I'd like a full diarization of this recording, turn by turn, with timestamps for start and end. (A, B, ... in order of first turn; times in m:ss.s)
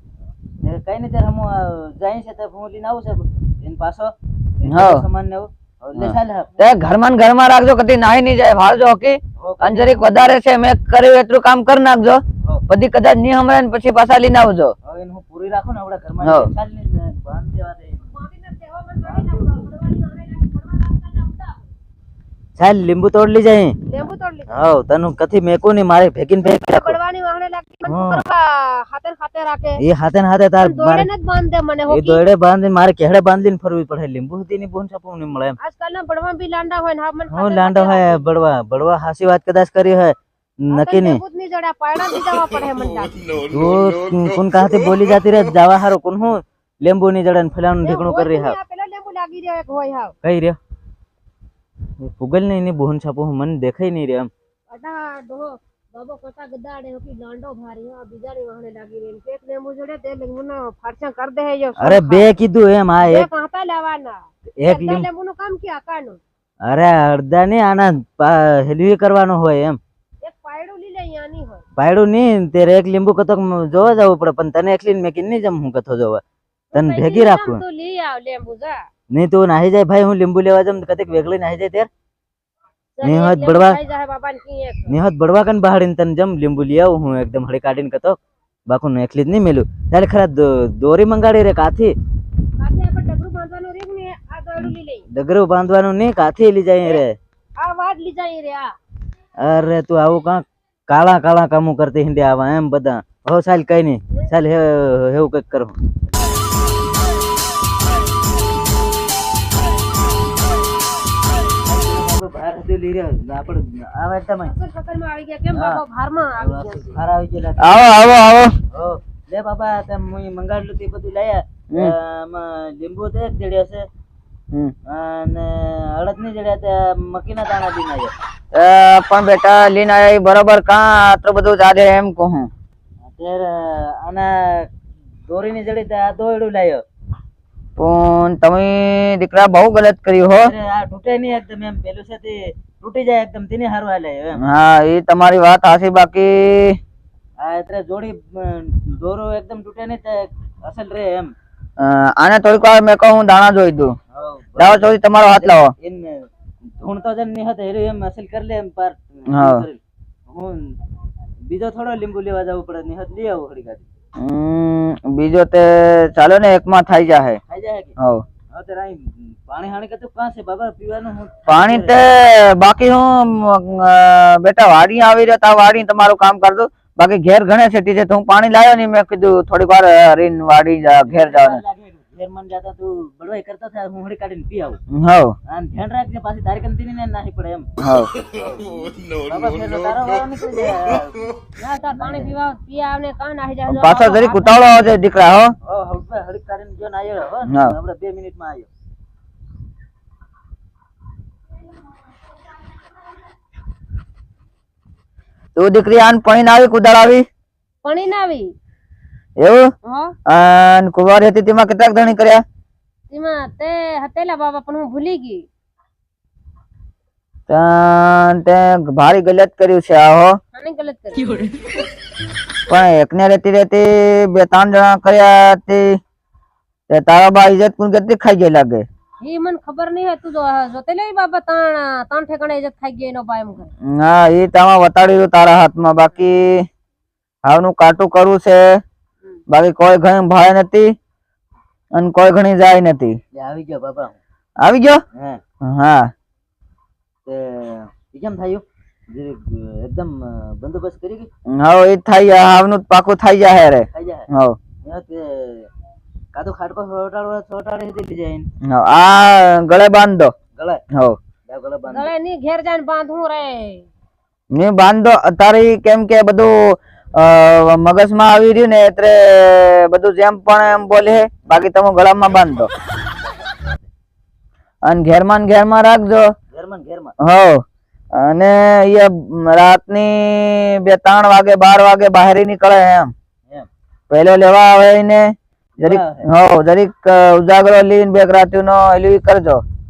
0:00.6-0:06.6 A
0:04.7-0:05.0 B
0:06.0-0:14.7 B
0:09.4-0:10.4 A
0:14.8-0:18.1 A
0:16.2-0:16.5 B
0:18.1-0:21.6 C
0:19.0-0:19.5 A
0:22.6-0:23.8 A
0:23.9-0:24.5 C
0:24.5-0:27.0 A
0:26.4-0:29.8 C
0:27.8-0:28.2 A
0:29.8-0:31.1 A
0:30.6-0:32.2 C
0:31.9-0:35.6 A
0:35.6-0:38.2 C
0:37.3-0:41.2 A
0:40.7-0:43.4 C
0:43.4-0:48.6 A
0:47.8-0:50.1 C
0:50.2-0:50.6 A
0:52.0-0:54.3 A
0:54.7-1:02.3 C
1:01.8-1:03.3 A
1:03.0-1:06.2 C
1:04.6-1:05.1 A
1:06.6-1:09.8 A
1:10.2-1:11.6 C
1:11.8-1:16.2 A
1:16.7-1:18.8 C
1:16.7-1:17.6 A
1:19.1-1:21.9 A
1:23.0-1:24.9 C
1:23.0-1:23.8 A
1:24.9-1:28.2 A
1:28.7-1:31.9 A
1:32.6-1:35.0 C
1:34.6-1:37.2 A
1:37.6-1:38.7 C
1:39.4-1:45.8 A
1:51.6-1:54.5 A
1:54.4-1:57.0 C
1:55.5-1:55.8 A
1:56.4-1:57.9 A
1:57.6-1:58.6 B
1:58.7-2:03.9 A
2:04.9-2:08.1 A
2:08.5-2:12.5 B
2:13.0-2:14.7 A
2:15.3-2:16.8 A
2:17.8-2:20.5 B
2:20.4-2:24.4 A
2:24.4-2:26.8 B
2:27.4-2:31.3 A
2:31.8-2:34.0 B
2:34.1-2:36.3 A
2:34.6-2:35.7 B
2:36.8-2:40.7 A
2:39.3-2:39.6 B
2:41.4-2:43.8 A
2:44.2-2:47.4 B
2:47.5-2:48.0 A
2:48.0-2:48.2 B
2:48.5-2:51.9 A
2:51.5-3:01.6 B
3:01.1-3:04.8 A
3:05.0-3:05.3 B
3:05.5-3:07.7 A
3:07.8-3:08.1 B
3:08.2-3:12.3 A
3:11.6-3:14.9 C
3:13.7-3:15.5 B
3:15.6-3:18.7 A
3:25.6-3:27.2 B
3:27.8-3:28.5 C
3:29.4-3:29.7 B
3:29.8-3:30.2 C
3:30.2-3:32.4 B
3:33.1-3:35.5 C
3:37.5-3:40.4 B
3:40.5-3:41.4 C
3:42.7-3:46.0 B
3:46.9-3:48.8 B
3:49.2-3:53.7 C
3:53.8-3:56.7 B
3:57.4-3:58.8 B
3:59.5-4:00.9 B
4:01.9-4:03.2 B
4:03.3-4:04.2 A
4:04.6-4:05.0 B
4:05.1-4:05.4 A
4:05.6-4:06.1 B
4:07.2-4:11.3 A
4:11.5-4:14.6 B
4:13.9-4:14.3 A
4:14.8-4:15.7 A
4:16.3-4:18.5 A
4:18.6-4:20.3 B
4:20.5-4:20.8 A
4:21.5-4:22.1 A
4:21.9-4:23.9 C
4:24.5-4:32.7 B
4:33.5-4:33.8 A
4:34.8-4:36.3 B
4:36.5-4:37.1 A
4:37.2-4:37.6 B
4:38.1-4:43.1 B
4:44.1-4:49.6 B
4:45.8-4:46.3 A